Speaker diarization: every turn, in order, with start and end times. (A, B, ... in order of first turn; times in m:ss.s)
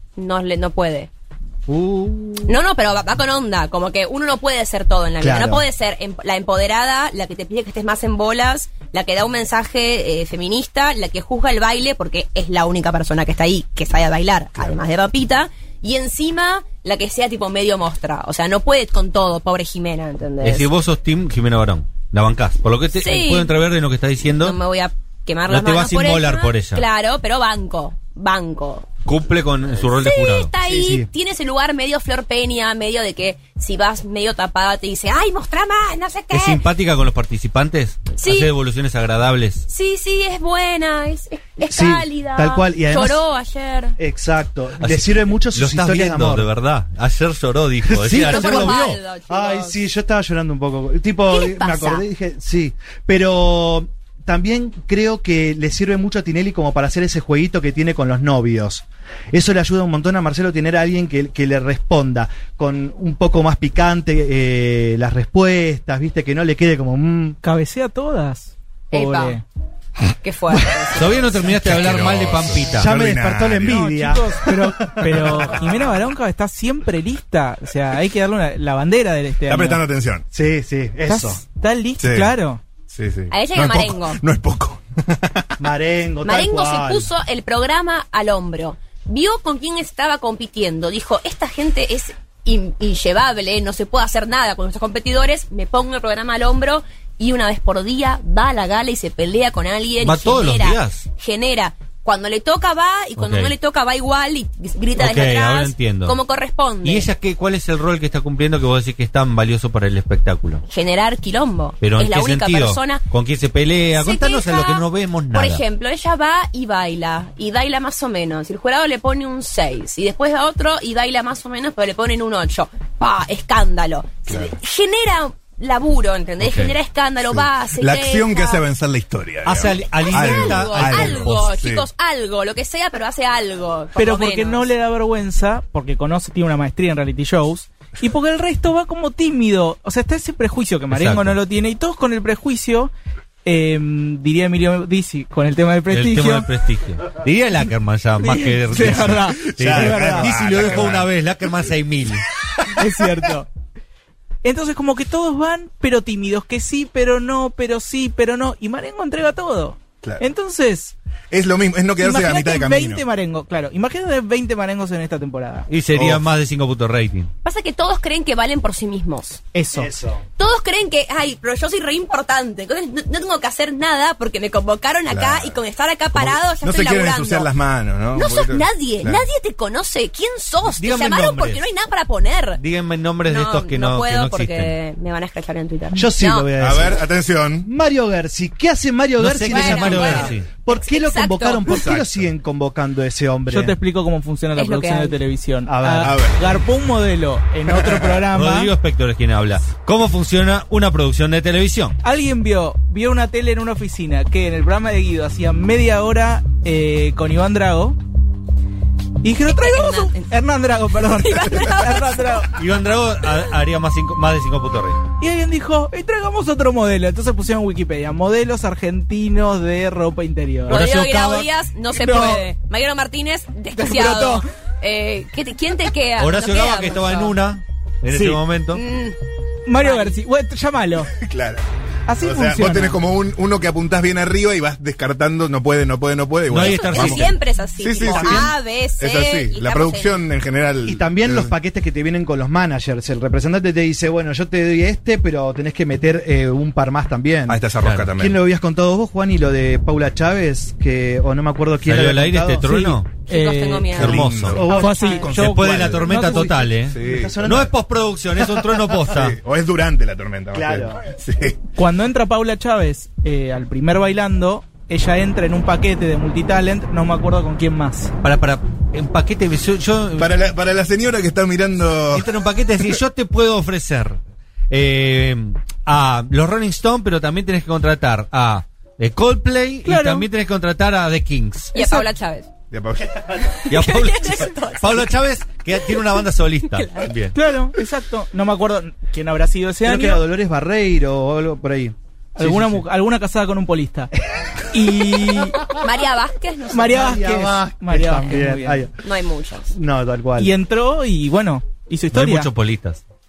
0:00.2-0:01.1 A
0:01.7-0:02.5 B
0:02.4-0:20.7 A
0:05.2-0:05.6 B
0:20.4-0:24.6 C
0:23.0-0:23.5 A
0:24.4-0:28.9 A
0:25.5-0:26.8 C
0:29.0-0:30.5 C
0:29.9-0:36.6 A
0:30.6-0:31.1 B
0:36.3-0:39.7 C
0:38.2-0:38.5 A
0:39.7-0:43.9 A
0:41.6-0:43.2 B
0:44.0-0:46.5 B
0:44.8-0:49.0 C
0:47.9-1:07.4 B
0:48.1-0:49.8 A
0:51.3-0:52.0 A
1:07.4-1:09.4 D
1:08.9-1:09.4 A
1:10.2-1:11.5 A
1:10.9-1:12.9 C
1:11.5-1:13.8 E
1:12.7-1:15.7 B
1:13.6-1:19.8 D
1:19.5-1:20.2 E
1:20.3-1:21.4 B
1:21.1-1:22.6 D
1:22.0-1:22.3 E
1:22.9-1:25.5 E
1:23.3-1:24.2 A
1:25.6-1:27.1 B
1:26.2-1:47.1 A
1:40.0-1:41.0 C
1:43.2-1:43.5 C
1:45.0-1:46.2 C
1:46.8-1:50.6 C
1:50.7-1:53.0 A
1:51.8-1:55.6 C
1:53.9-2:08.6 A
2:04.3-2:04.5 E
2:06.4-2:06.7 C
2:07.3-2:11.9 E
2:09.4-2:11.6 C
2:09.9-2:14.6 A
2:14.0-2:22.9 D
2:20.9-2:21.4 C
2:23.4-2:26.5 D
2:25.9-2:32.2 C
2:28.2-2:30.3 D
2:29.4-2:31.1 E
2:29.7-2:30.2 B
2:32.7-2:33.5 D
2:34.4-2:40.9 D
2:41.3-2:43.0 E
2:42.0-2:45.7 D
2:45.7-2:47.3 C
2:45.9-2:46.2 E
2:47.4-2:49.4 A
2:49.5-2:49.9 D
2:49.7-2:50.2 B
2:50.4-2:57.5 A
2:55.1-2:55.6 E
2:56.1-2:59.2 E
2:58.1-3:02.6 A
3:00.8-3:01.6 C
3:02.6-3:04.7 C
3:03.2-3:06.5 A
3:05.9-3:07.0 B
3:06.6-3:07.7 E
3:07.6-3:13.8 B
3:09.2-3:10.5 C
3:09.5-3:11.8 A
3:11.7-3:12.3 E
3:13.5-3:18.7 D
3:14.5-3:15.2 A
3:15.6-3:16.2 B
3:16.0-3:16.4 E
3:17.7-3:18.2 E
3:18.3-3:22.0 C
3:22.0-3:28.0 D
3:29.2-3:32.5 D
3:29.4-3:30.3 A
3:31.0-3:32.5 A
3:32.5-3:35.0 C
3:35.2-3:40.8 D
3:40.7-3:47.4 A
3:40.7-3:41.5 C
3:41.9-3:42.4 D
3:43.7-3:44.4 D
3:46.2-3:48.8 C
3:48.1-3:48.4 D
3:48.7-3:49.2 A
3:49.7-3:51.1 D
3:49.8-3:50.2 A
3:51.1-3:51.6 E
3:52.1-3:53.0 D
3:52.2-4:01.5 E
3:56.5-3:57.3 C
3:56.6-4:00.2 A
3:58.1-3:58.5 B
4:00.8-4:07.6 B
4:07.5-4:08.4 E
4:07.8-4:08.1 C
4:08.2-4:12.7 B
4:11.8-4:13.1 C
4:12.6-4:14.1 D
4:13.3-4:15.3 A
4:13.9-4:16.2 E
4:13.9-4:14.7 C
4:14.2-4:15.3 B
4:14.7-4:16.5 D
4:15.2-4:19.4 C
4:16.0-4:17.7 B
4:16.9-4:17.3 E
4:18.4-4:18.8 B
4:19.1-4:21.6 E
4:20.5-4:21.0 B
4:21.8-4:28.1 D
4:28.2-4:30.4 C
4:30.2-4:32.3 E
4:32.1-4:34.2 C
4:34.7-4:41.7 C
4:39.8-4:40.3 D
4:41.7-4:42.5 A
4:41.8-4:42.0 D
4:42.7-4:43.5 E
4:43.5-4:45.1 A
4:43.7-4:47.3 C
4:46.6-4:47.1 A
4:47.3-4:50.2 D
4:49.8-4:51.9 B
4:52.4-4:54.1 D
4:54.7-4:55.6 D
4:55.7-4:57.2 A
4:56.7-4:58.8 D
4:56.8-4:59.0 B
4:59.0-4:59.7 A
4:59.7-5:00.5 B
5:00.4-5:02.5 D
5:02.1-5:03.0 C